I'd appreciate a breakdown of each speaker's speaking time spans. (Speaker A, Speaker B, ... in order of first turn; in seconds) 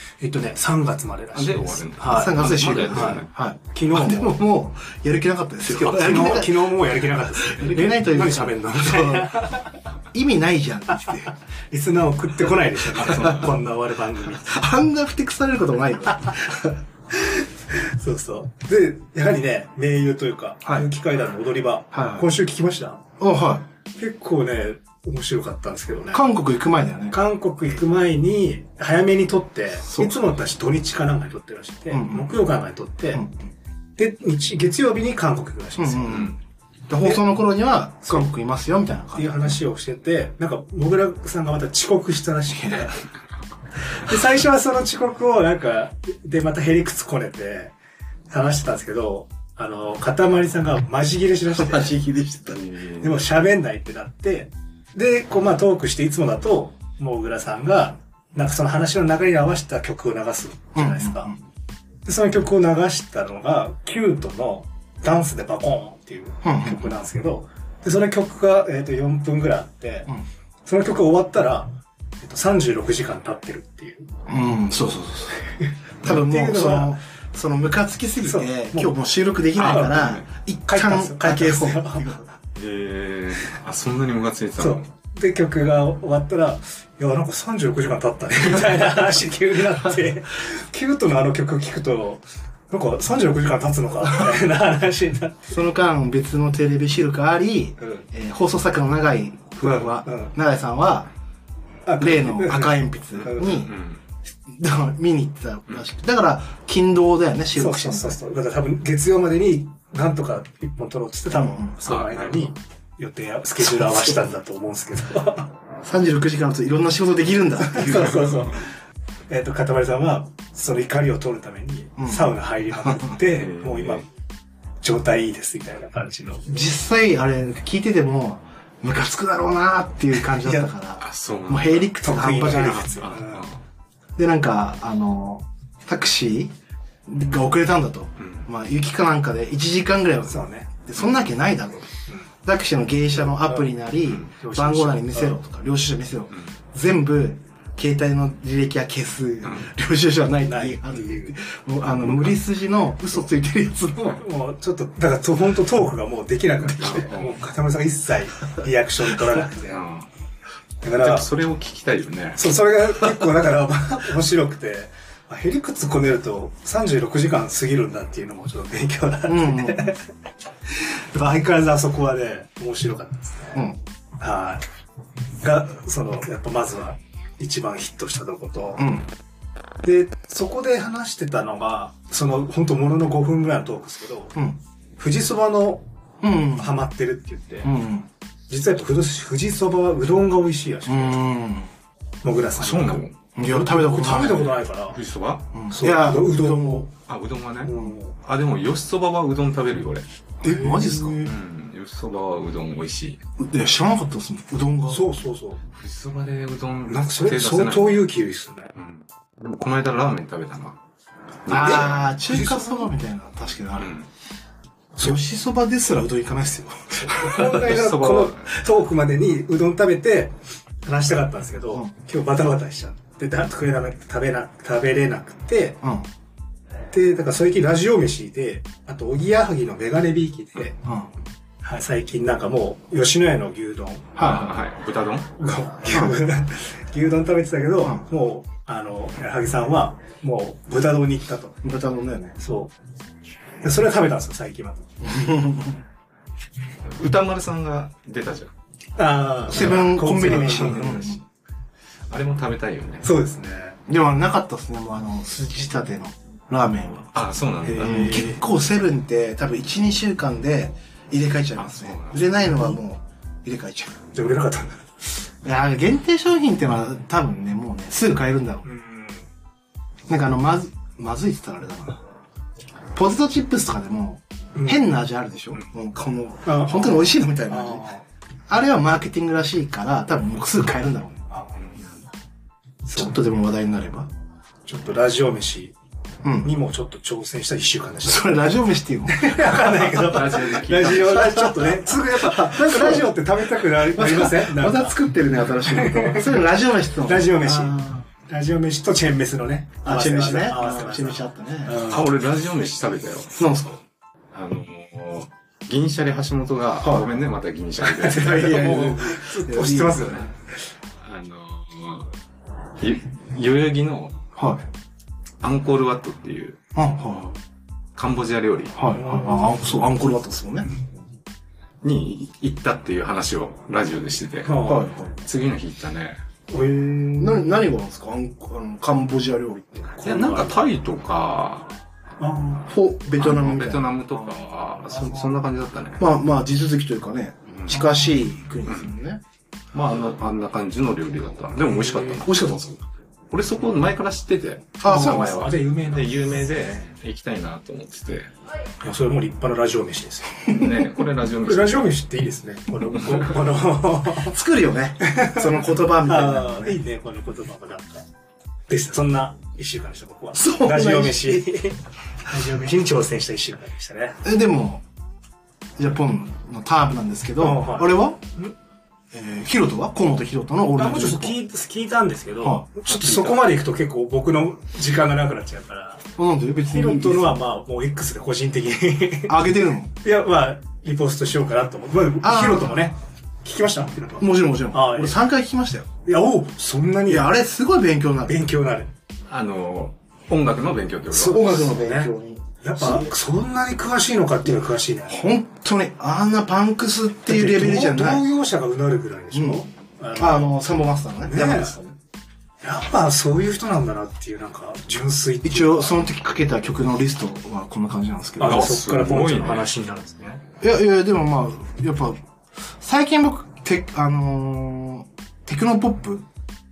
Speaker A: 0.2-4.4, 5.7-9.7, 11.7-14.6, 17.1-23.0, 23.9-26.2, 27.1-33.2, 34.0-36.3, 39.1-43.0, 44.0-47.7, 48.3-52.0, 53.0-61.3, 62.0-70.1, 70.6-74.1, 75.5-77.0, 78.2-78.9, 79.6-82.3, 84.6-95.5, 97.8-98.0, 99.6-100.3, 101.8-103.7, 107.5-115.5, 117.6-118.7, 119.3-124.0, 124.8-126.5, 130.3-130.7, 132.0-133.5, 140.3-140.7, 143.1-143.7, 144.3-145.4, 150.4-151.4, 154.0-159.9, 160.8-161.3, 162.3-170.0, 170.7-173.7, 174.2-174.6, 175.4-178.8, 179.8-184.3, 185.0-185.8, 186.6-187.7, 188.5-191.2, 192.2-195.0, 195.7-196.9, 197.6-198.1, 200.4-201.2, 204.9-205.6, 206.9-208.7, 211.5-212.9, 217.1-225.8, 226.9-230.8, 231.6-234.2, 235.4-241.6, 242.4-242.7, 243.6-244.9, 249.0-251.2, 253.0-253.8, 257.6-258.4, 264.1-264.8, 268.6-269.2, 274.5-274.9, 276.4-278.0, 282.9-283.1, 284.7-285.7, 286.4-288.5, 289.1-295.0, 295.6-296.4, 297.0-302.1, 307.8-310.3, 318.9-319.8, 324.4-324.9, 326.5-327.4, 330.0-330.6, 332.2-332.7, 341.9-342.2, 344.8-346.8, 348.8-350.7, 351.4-354.4, 355.1-358.1, 358.7-364.2, 367.4-368.5, 370.8-376.0, 376.7-379.4, 380.0-385.2, 386.1-387.3, 388.3-388.9, 391.1-392.1, 392.6-395.2, 397.2-400.6, 401.2-401.8, 402.6-406.0, 408.4-410.4
Speaker B: 1.3-3.3, 5.8-6.5, 13.0-13.5, 52.5-53.2, 79.6-80.2, 82.5-84.8, 103.2-104.0, 111.8-112.4, 123.3-124.0, 131.0-131.9, 132.8-133.6, 138.2-138.5, 152.0-152.3, 156.8-157.4, 159.7-160.1, 161.0-162.5, 192.6-193.1, 194.9-195.5, 197.1-200.0, 201.2-203.2, 205.7-208.1, 208.7-210.8, 211.4-212.2, 213.8-214.1, 217.4-218.5, 234.2-235.3, 246.9-248.5, 249.5-251.1, 252.1-253.1, 257.1-258.1, 261.6-262.6, 290.0-291.3, 301.8-303.3, 304.3-308.8, 311.0-312.1, 312.8-314.2, 315.4-316.6, 317.9-318.8, 321.8-326.2, 330.0-331.8, 333.2-336.0, 337.6-337.8, 338.6-338.9, 339.7-342.8, 343.3-348.3, 350.5-352.0, 372.9-373.4, 389.3-391.6, 408.4-409.7
Speaker C: 2.0-9.5, 10.1-11.3, 13.0-13.4, 14.4-16.8, 21.9-22.3, 23.2-23.6, 26.1-27.2, 29.9-30.1, 31.9-32.4, 35.8-36.4, 36.9-39.6, 42.6-42.9, 51.5-52.6, 60.8-61.4, 66.4-66.8, 74.3-75.5, 76.0-82.2, 95.5-101.1, 102.0-103.8, 104.5-108.2, 111.3-111.7, 115.8-118.5, 122.0-123.1, 126.5-132.9, 134.2-136.5, 137.1-141.9, 142.4-154.2, 169.2-169.9, 178.8-179.1, 186.2-186.8, 187.6-188.1, 190.9-191.7, 193.3-194.6, 195.5-196.9, 200.4-201.3, 203.4-205.0, 211.5-213.9, 215.0-217.6, 225.8-226.1, 230.8-231.1, 234.2-234.5, 241.6-242.3, 245.0-245.8, 249.5-251.2, 253.9-257.1, 257.8-264.0, 265.4-268.7, 270.1-272.0, 272.9-277.9, 278.5-281.3, 282.9-284.1, 286.2-286.5, 288.0-290.2, 290.8-293.2, 293.7-298.0, 299.8-301.8, 303.3-303.8, 306.8-307.2, 308.2-310.3, 314.4-314.6, 316.7-317.4, 318.8-320.7, 324.6-325.1, 327.2-330.0, 332.7-334.2, 334.9-335.2, 336.0-339.2, 342.2-342.7, 344.8-345.5, 354.2-356.8, 360.3-361.4, 364.2-364.8, 365.8-368.2, 369.1-371.4, 372.4-372.7, 376.2-377.4, 379.3-379.9, 382.2-382.9, 384.2-385.9, 387.1-388.4, 391.2-393.1, 395.1-398.2, 399.3-399.6, 400.1-401.9, 405.4-408.7, 410.6-412.2, 412.8-416.2